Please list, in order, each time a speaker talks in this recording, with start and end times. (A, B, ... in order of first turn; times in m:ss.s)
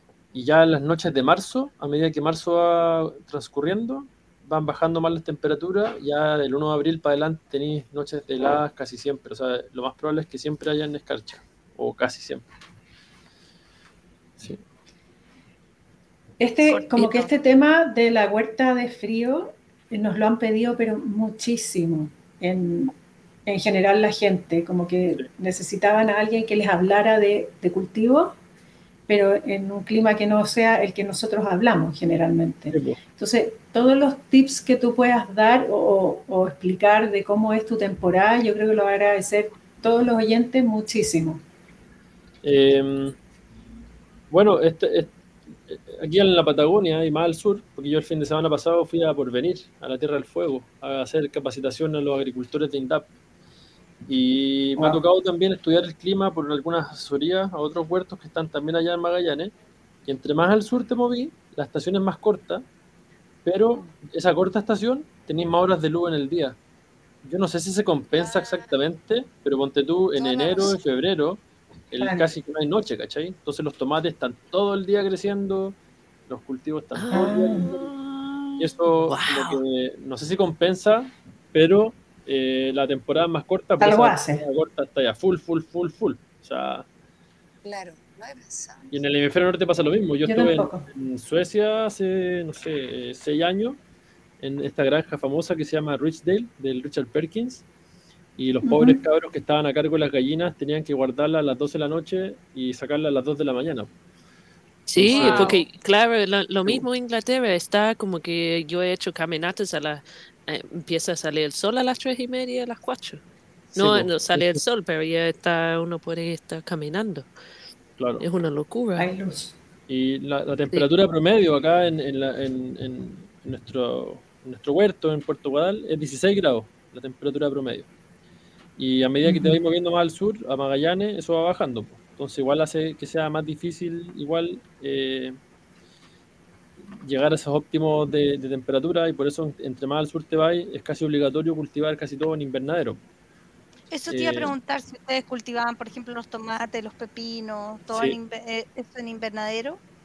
0:00.3-0:12.4 A
0:16.4-0:22.9 B
0:16.7-0:17.3 C
0:23.4-0:28.4 B
0:29.1-0:41.4 B
0:32.7-0:33.0 A
0:42.4-0:43.2 A
0:44.3-0:45.1 A
0:45.7-0:53.1 A
0:54.0-0:59.5 A
0:54.8-0:55.0 B
1:00.0-1:02.6 A
1:03.4-1:06.6 A
1:07.2-1:17.9 A
1:08.1-1:08.7 D
1:10.2-1:10.8 D
1:12.0-1:12.2 B
1:16.9-1:19.6 E
1:17.1-1:17.7 B
1:18.6-1:26.8 A
1:23.8-1:24.4 B
1:27.6-1:29.0 D
1:28.9-1:33.8 A
1:30.2-1:30.8 B
1:34.4-1:37.6 A
1:38.4-1:43.9 A
1:38.6-1:39.0 B
1:44.9-1:53.2 E
1:45.0-1:45.6 A
1:45.1-1:45.5 B
1:45.2-1:45.5 C
1:53.7-1:54.6 A
1:53.7-1:57.3 E
1:58.0-1:58.2 A
1:58.2-1:59.1 E
1:59.0-1:59.5 B
1:59.9-2:07.9 A
2:08.8-2:15.4 A
2:09.2-2:09.6 B
2:17.0-2:23.0 A
2:23.9-2:29.8 C
2:24.1-2:24.5 A
2:27.9-2:28.2 A